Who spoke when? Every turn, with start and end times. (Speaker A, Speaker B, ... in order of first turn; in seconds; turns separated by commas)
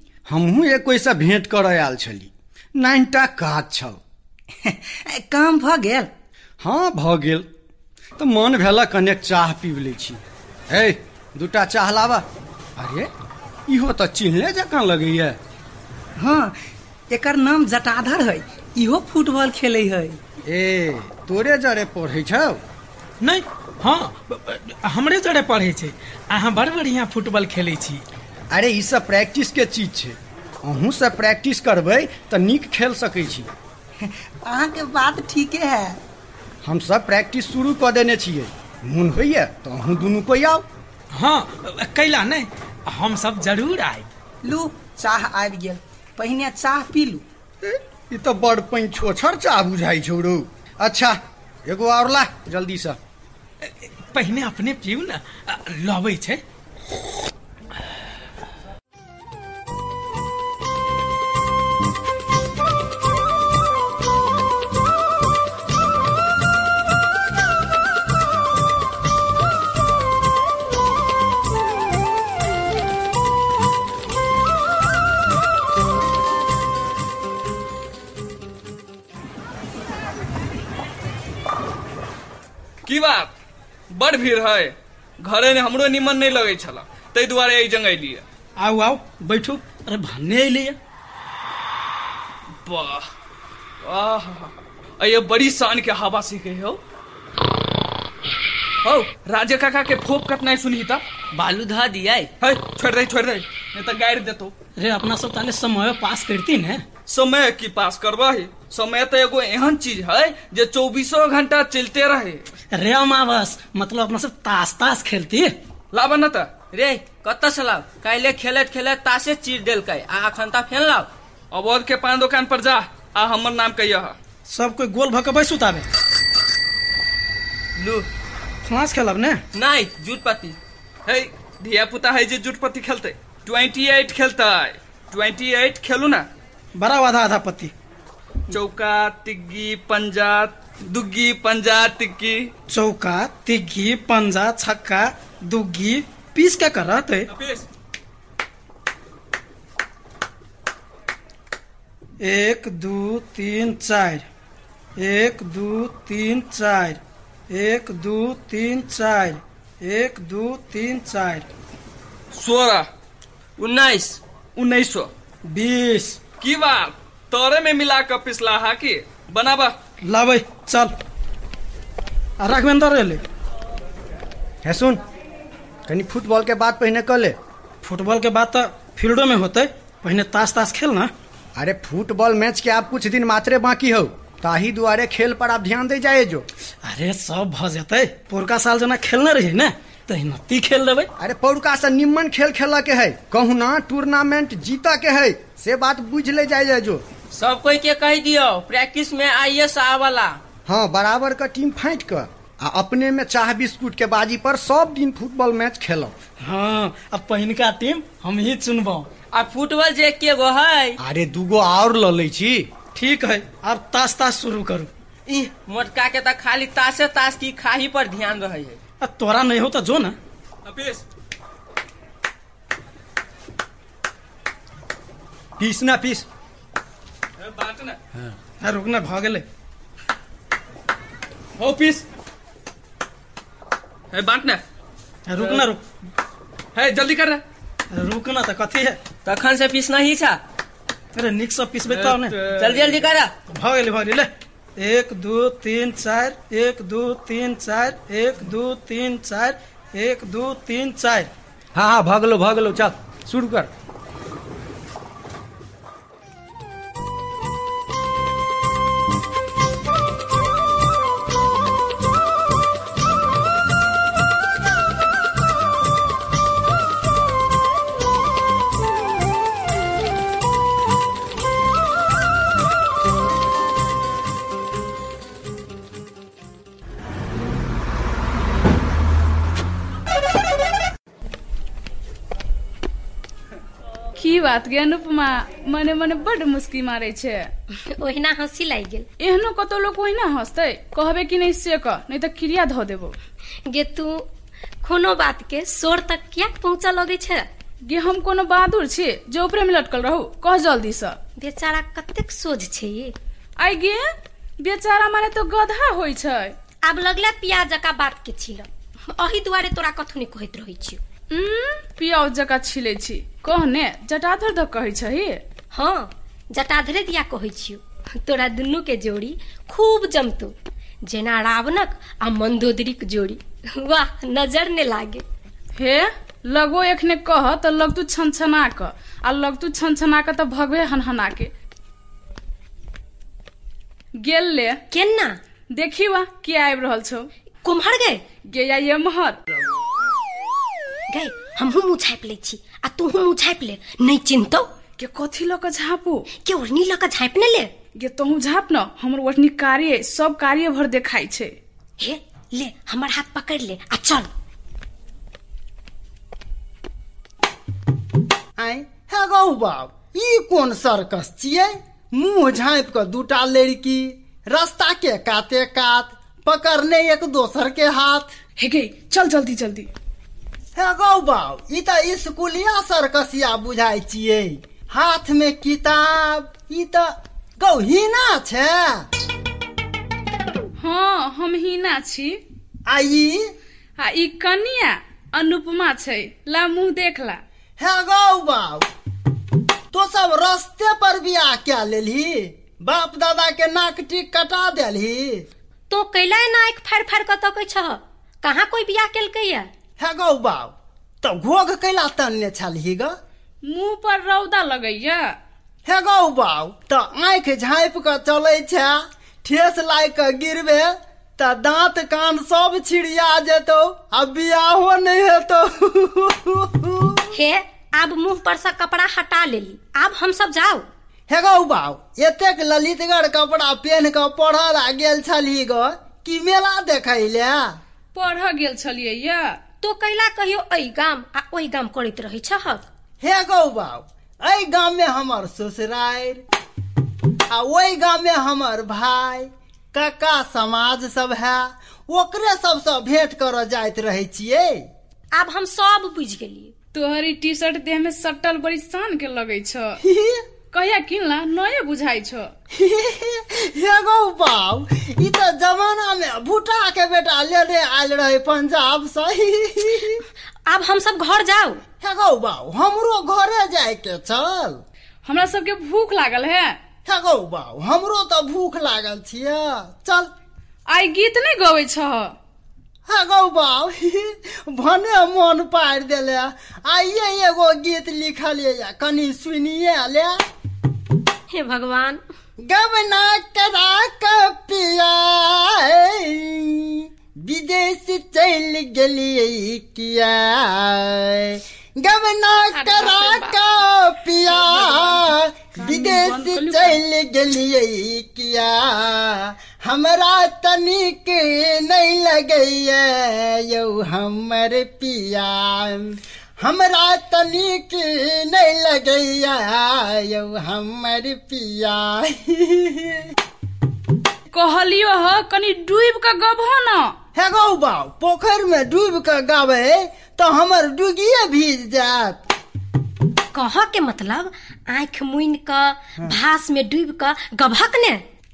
Speaker A: 0.3-4.0, Speaker B: 4.6-6.1, Speaker A: 6.6-7.5, Speaker A: 8.2-12.2, Speaker A: 12.8-13.1, Speaker A: 13.7-15.4, Speaker B: 16.2-16.6, Speaker B: 17.1-20.2, Speaker A: 20.4-22.6, Speaker C: 23.2-28.0, Speaker A: 28.5-33.5, Speaker B: 34.0-36.0, Speaker A: 36.6-40.6, Speaker C: 41.1-44.1, Speaker B: 44.4-47.2, Speaker A: 47.6-53.0, Speaker C: 53.6-56.4, Speaker D: 82.9-83.3, Speaker D: 83.9-88.2, Speaker C: 88.6-90.8, Speaker D: 92.6-93.1, Speaker D: 93.8-96.8, Speaker D: 98.8-101.0, Speaker E: 101.3-102.3, Speaker D: 102.4-104.5, Speaker C: 104.8-106.8, Speaker D: 107.1-112.4, Speaker C: 112.7-115.5, Speaker D: 115.9-116.6, Speaker E: 116.7-121.1, Speaker D: 121.5-124.2, Speaker C: 124.5-125.8, Speaker E: 127.8-128.1, Speaker C: 128.7-129.4, Speaker E: 129.5-130.6, Speaker D: 131.1-136.3, Speaker C: 136.8-137.7, Speaker D: 138.5-142.5, Speaker C: 142.7-147.3, Speaker D: 147.3-147.7, Speaker C: 152.2-154.3, Speaker C: 155.0-157.0, Speaker C: 157.5-161.5, Speaker D: 162.3-162.9, Speaker E: 163.6-164.2, Speaker D: 164.6-165.1, Speaker C: 165.5-166.2, Speaker D: 166.3-169.8, Speaker C: 170.0-170.9, Speaker C: 172.4-173.2, Speaker A: 174.6-175.0, Speaker A: 175.9-177.4, Speaker C: 177.8-181.1, Speaker A: 181.6-186.5, Speaker C: 186.8-191.1, Speaker A: 191.2-197.0, Speaker E: 197.3-200.4, Speaker A: 200.7-206.2, Speaker C: 206.4-209.1, Speaker E: 209.3-211.0, Speaker A: 211.0-212.7, Speaker C: 212.9-214.9, Speaker E: 215.3-218.8, Speaker C: 219.0-220.2, Speaker D: 220.7-221.0, Speaker A: 225.6-226.3, Speaker D: 227.4-228.0, Speaker C: 228.6-229.4, Speaker D: 231.6-232.0, Speaker D: 234.1-234.6, Speaker C: 235.3-235.8, Speaker D: 235.4-235.7, Speaker D: 236.7-237.4, Speaker C: 237.9-239.0, Speaker E: 239.2-240.4, Speaker C: 241.2-242.4, Speaker D: 241.9-243.0, Speaker E: 242.5-243.3, Speaker C: 243.5-251.3, Speaker A: 251.8-253.7, Speaker F: 284.2-287.4, Speaker G: 287.9-289.1, Speaker F: 289.2-293.1, Speaker G: 293.7-294.2, Speaker G: 294.8-297.5, Speaker F: 297.9-301.2, Speaker G: 301.4-303.1, Speaker F: 303.6-304.0, Speaker F: 304.6-306.6, Speaker G: 306.9-311.0, Speaker F: 311.3-315.4, Speaker G: 315.7-320.5, Speaker G: 321.1-325.2, Speaker F: 325.8-331.5, Speaker F: 334.2-334.8, Speaker G: 334.9-335.4, Speaker F: 335.8-337.3, Speaker G: 337.6-338.2, Speaker F: 338.5-339.4, Speaker G: 341.1-344.7, Speaker F: 345.0-346.2, Speaker G: 346.4-347.7, Speaker F: 348.0-351.5, Speaker G: 352.0-354.3, Speaker H: 358.6-368.3, Speaker F: 368.6-369.9, Speaker H: 370.8-379.1, Speaker F: 380.8-382.4, Speaker H: 382.9-383.5, Speaker F: 384.0-387.4, Speaker H: 387.8-388.9, Speaker H: 389.9-395.5, Speaker G: 395.9-399.7, Speaker H: 400.0-403.2, Speaker F: 403.6-405.3, Speaker H: 405.9-417.2, Speaker G: 417.3-420.9, Speaker H: 421.3-427.8, Speaker F: 428.1-429.6, Speaker G: 429.8-432.9, Speaker H: 433.2-436.4, Speaker H: 437.5-444.8, Speaker G: 445.3-446.7, Speaker F: 446.9-450.0, Speaker H: 450.0-450.4, Speaker F: 450.7-452.5, Speaker H: 452.7-460.2, Speaker G: 460.7-461.8, Speaker H: 462.0-464.8, Speaker F: 465.2-466.8, Speaker H: 467.1-470.3, Speaker F: 470.9-472.3, Speaker H: 473.1-480.4, Speaker G: 481.5-482.2, Speaker H: 482.7-513.3, Speaker F: 495.8-497.0, Speaker F: 514.5-517.1, Speaker H: 517.4-522.4, Speaker G: 523.5-528.2